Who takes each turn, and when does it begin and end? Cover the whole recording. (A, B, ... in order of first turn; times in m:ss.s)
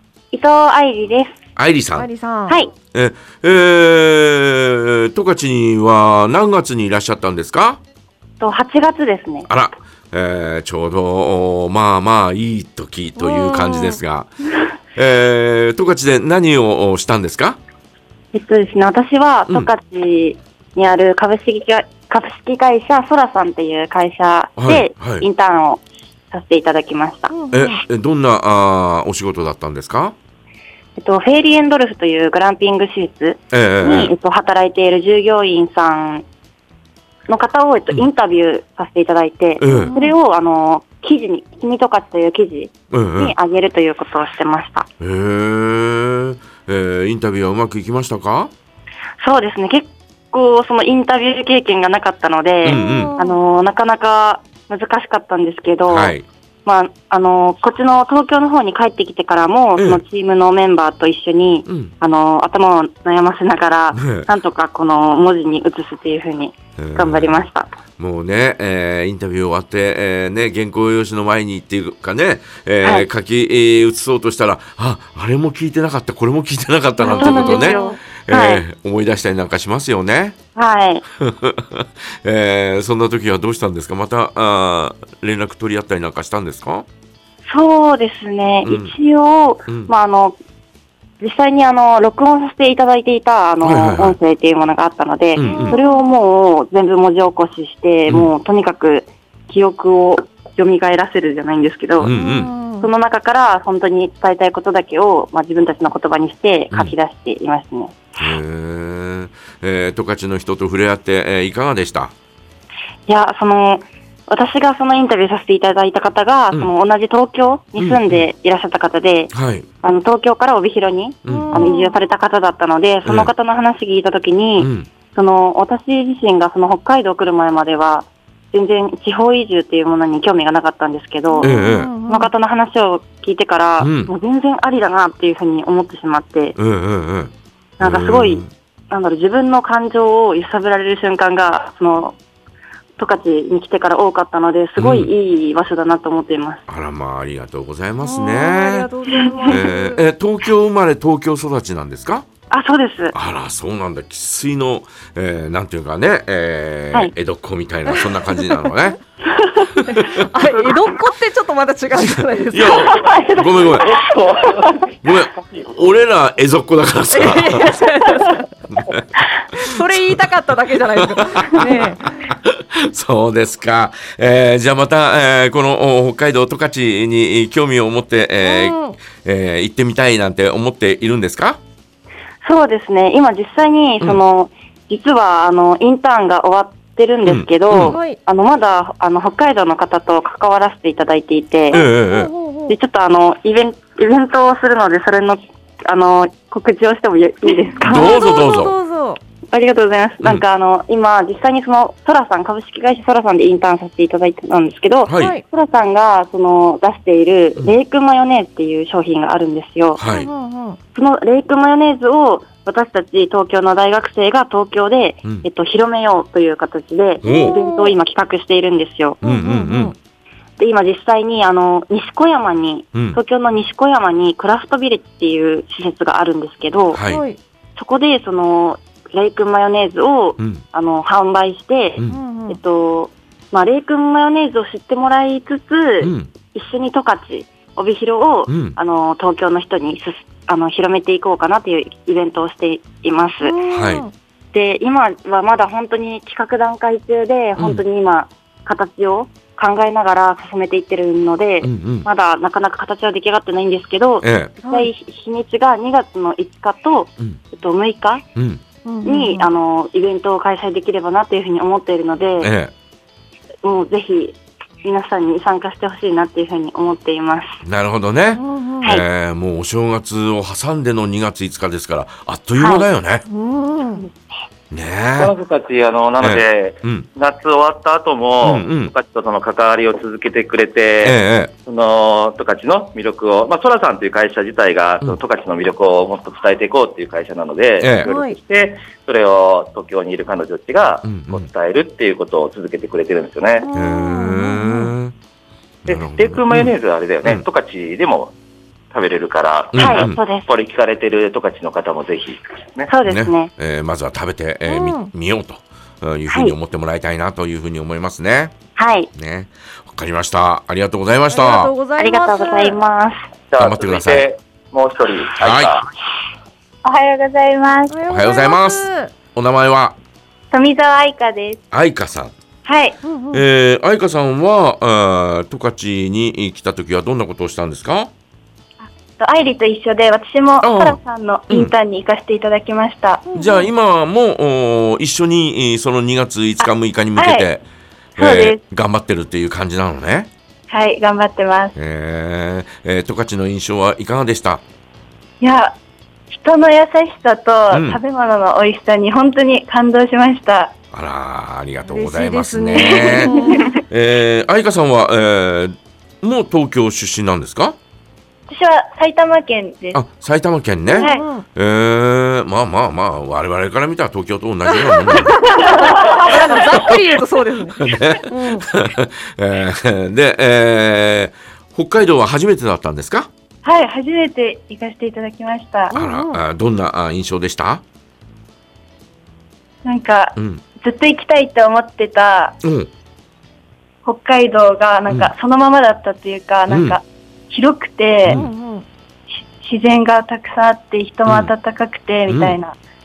0:00.3-0:01.3 A
0:01.6-0:02.1 B
0:01.9-0:02.6 C
0:02.9-0:07.8 B
0:08.4-0:09.5 A
0:09.5-0:14.3 B
0:13.2-0:14.0 C
0:15.0-0:17.6 B
0:18.3-0:27.3 A
0:24.6-0:25.2 B
0:27.3-0:27.8 C
0:27.5-0:30.1 B
0:31.0-0:36.2 A
0:33.5-0:34.1 B
0:37.3-0:44.9 A
0:39.6-0:40.0 B
0:39.7-0:40.1 C
0:42.9-0:43.3 B
0:45.0-0:48.5 B
0:49.2-1:07.7 A
0:52.6-0:53.1 B
0:52.6-0:53.4 C
0:55.9-0:56.2 B
0:59.8-1:00.0 B
1:01.6-1:01.9 B
1:03.9-1:04.3 B
1:06.8-1:07.4 B
1:08.0-1:20.4 B
1:12.8-1:13.1 A
1:17.0-1:18.0 C
1:17.1-1:18.6 A
1:20.5-1:21.0 A
1:21.2-1:26.8 B
1:27.4-1:30.4 A
1:28.6-1:28.9 B
1:29.7-1:29.9 B
1:31.2-1:42.1 A
1:33.6-1:34.2 B
1:35.3-1:35.8 B
1:35.4-1:36.0 C
1:42.0-1:42.5 B
1:42.0-1:42.9 C
1:42.8-1:48.0 A
1:48.2-1:52.1 B
1:53.1-2:11.5 A
1:57.8-1:58.3 B
1:59.3-1:59.7 B
2:01.2-2:01.7 B
2:01.2-2:01.9 C
2:03.0-2:03.3 B
2:04.6-2:04.9 B
2:11.3-2:12.3 C
2:11.4-2:11.9 B
2:12.1-2:16.6 A
2:13.8-2:14.1 B
2:16.6-2:18.5 B
2:17.8-2:22.2 A
2:23.0-2:26.6 A
2:24.8-2:25.1 B
2:26.7-2:28.9 B
2:28.0-2:30.0 C
2:29.5-2:32.3 B
2:32.5-2:33.1 A
2:33.1-2:39.0 B
2:37.9-2:38.7 C
2:39.8-2:42.8 C
2:39.9-2:40.2 B
2:42.5-2:43.9 B
2:42.8-2:43.8 D
2:43.8-2:44.9 E
2:45.0-2:47.8 B
2:47.1-2:48.5 C
2:48.7-2:49.0 B
2:49.6-2:50.2 B
2:49.6-2:52.2 C
2:51.0-3:01.6 B
2:58.4-2:59.0 C
3:02.4-3:11.8 A
3:07.2-3:08.0 B
3:07.9-3:08.2 C
3:11.7-3:12.3 B
3:11.7-3:12.7 C
3:12.7-3:18.2 A
3:17.8-3:18.7 B
3:17.9-3:19.2 C
3:19.5-3:30.0 A
3:25.0-3:25.4 B
3:25.1-3:25.4 C
3:30.0-3:30.3 B
3:30.1-3:30.8 C
3:30.9-3:39.2 A
3:37.2-3:37.6 B
3:37.2-3:38.0 C
3:39.2-3:39.9 B
3:39.2-3:39.9 C
3:40.6-3:47.0 A
3:42.9-3:43.2 B
3:46.9-3:47.2 B
3:47.1-3:47.4 C
3:47.8-4:03.6 A
3:52.1-3:52.6 C
3:56.0-3:56.3 B
3:58.5-3:58.8 B
4:03.4-4:04.1 C
4:03.7-4:04.0 B
4:04.5-4:18.2 A
4:07.6-4:07.8 B
4:11.6-4:12.1 B
4:14.2-4:14.5 B
4:14.6-4:14.9 C
4:18.4-4:18.6 B
4:18.8-4:19.5 C
4:19.0-4:22.5 A
4:22.4-4:22.7 B
4:23.6-4:27.6 A
4:27.6-4:33.2 B
4:28.3-4:28.8 C
4:32.6-4:32.9 A
4:33.3-4:34.0 C
4:34.7-4:35.3 B
4:35.2-4:53.7 E
4:36.2-4:37.1 B
4:38.4-4:38.9 B
4:41.0-4:41.5 B
4:47.8-4:48.1 B
4:48.0-4:48.4 C
4:51.0-4:51.5 B
4:53.6-4:54.9 C
4:53.7-4:55.1 B
4:55.8-4:56.7 B
4:55.9-4:58.3 E
4:58.9-5:02.9 E
4:59.7-5:00.2 B
4:59.7-5:00.5 A
5:02.9-5:03.5 A
5:03.0-5:08.5 B
5:04.7-5:05.1 C
5:06.3-5:06.6 A
5:08.8-5:09.1 A
5:09.1-5:11.7 B
5:11.3-5:12.8 C
5:12.0-5:13.2 A
5:13.5-5:15.8 E
5:13.6-5:14.3 B
5:15.4-5:15.7 B
5:16.8-5:18.0 D
5:17.9-5:19.1 C
5:18.1-5:20.0 B
5:20.5-5:21.6 D
5:21.7-5:22.3 B
5:22.6-5:23.0 D
5:23.0-5:23.4 C
5:23.3-5:28.1 B
5:28.8-5:33.2 D
5:30.6-5:31.7 B
5:33.3-5:33.7 C
5:33.3-5:37.6 B
5:36.6-5:37.5 D
5:38.2-5:38.6 D
5:38.2-5:40.3 B
5:40.7-5:41.7 D
5:41.8-5:44.6 B
5:45.4-5:45.7 D
5:46.3-5:50.7 D
5:47.7-5:48.0 B
5:50.9-5:53.4 B
5:51.9-5:53.7 C
5:52.8-5:53.8 D
5:53.9-5:57.8 B
5:58.5-6:00.0 D
5:59.9-6:05.6 B
6:00.9-6:01.4 C
6:01.0-6:01.2 D
6:04.7-6:08.7 C
6:05.6-6:06.1 D
6:06.3-6:07.0 B
6:07.8-6:13.3 B
6:13.6-6:15.9 D
6:15.9-6:16.4 C
6:15.9-6:17.8 B
6:19.8-6:22.6 D
6:20.4-6:20.6 B
6:22.6-6:22.9 B
6:24.0-6:28.4 D
6:25.1-6:25.3 B
6:26.7-6:27.0 B
6:28.2-6:28.5 B
6:28.3-6:28.8 C
6:29.6-6:32.8 D
6:31.2-6:31.5 B
6:32.3-6:32.6 B